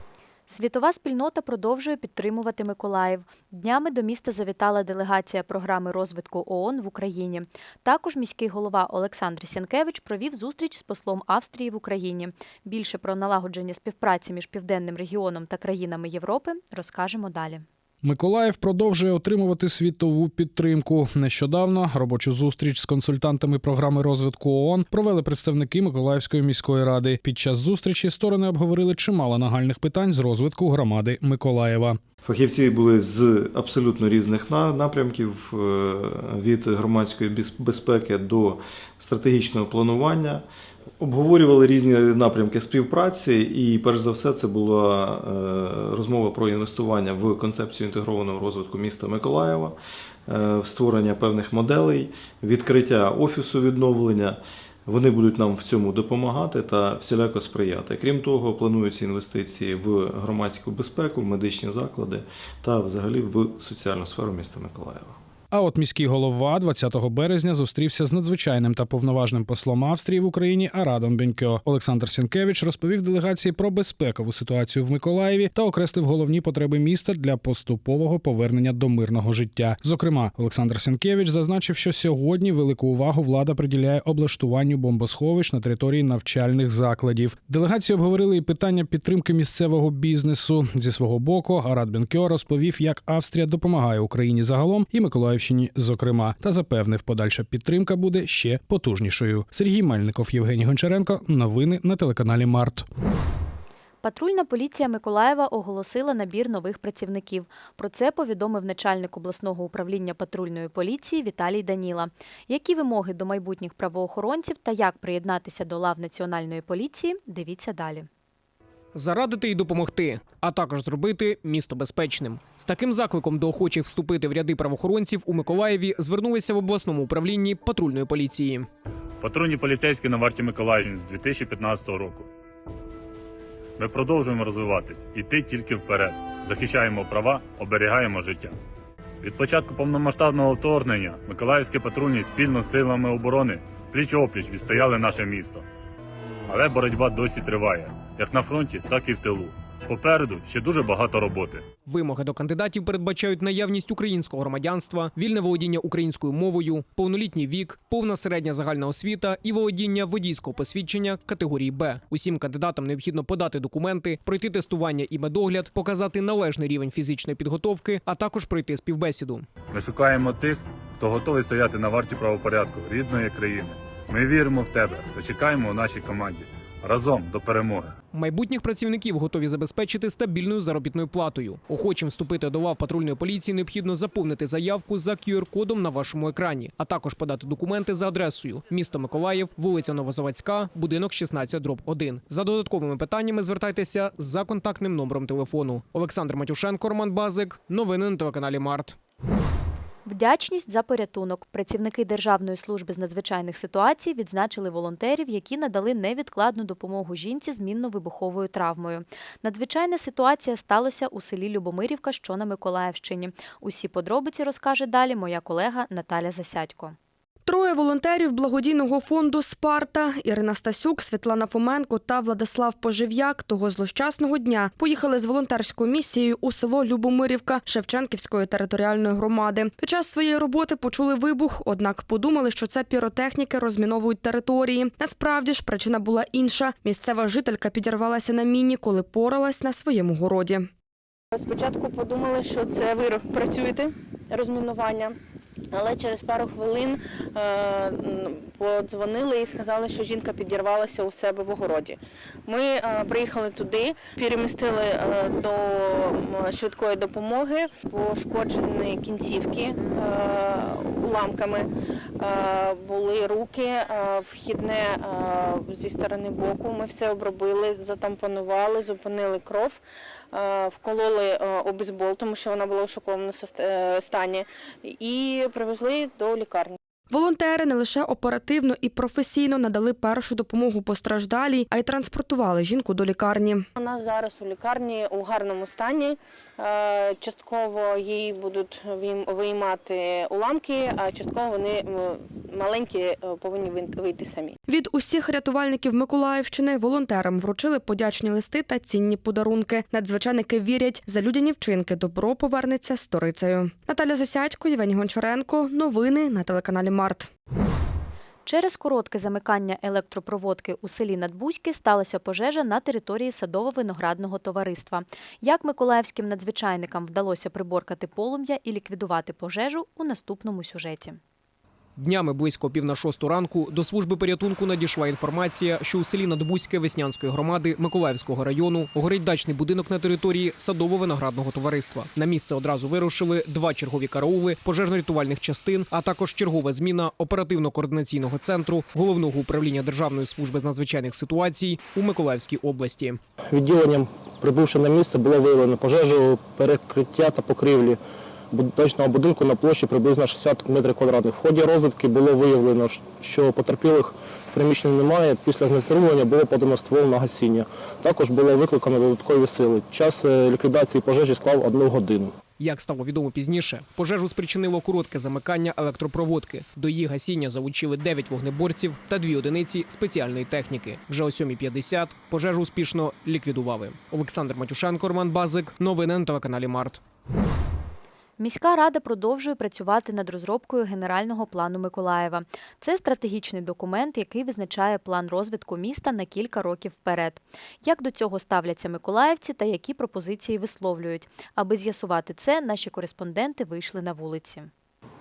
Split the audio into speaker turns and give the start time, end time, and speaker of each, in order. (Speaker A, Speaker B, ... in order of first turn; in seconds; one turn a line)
Speaker A: 0.5-17.6
Speaker B: 18.0-32.0
Speaker C: 32.2-40.4
Speaker C: 41.0-49.8
Speaker C: 50.3-65.2
Speaker B: 65.5-102.8
Speaker A: 104.0-118.1
Speaker D: 118.9-128.7
Speaker E: 129.2-132.3
Speaker E: 133.8-138.5
Speaker E: 139.2-145.6
Speaker E: 146.5-151.6
Speaker D: 151.9-169.5
Speaker E: 169.7-177.9
Speaker D: 178.1-199.0
Speaker A: 200.1-217.0
Speaker F: 217.5-240.5
Speaker G: 241.3-245.2
Speaker G: 245.7-261.7
Speaker G: 262.2-269.8
Speaker G: 270.3-276.8
Speaker F: 277.2-283.5
Speaker G: 283.8-294.6
Speaker F: 294.8-307.2
Speaker A: 308.5-321.2
Speaker D: 322.0-343.2
Speaker H: 343.5-348.0
Speaker H: 348.5-362.3
Speaker D: 362.6-377.0
Speaker A: 378.4-394.7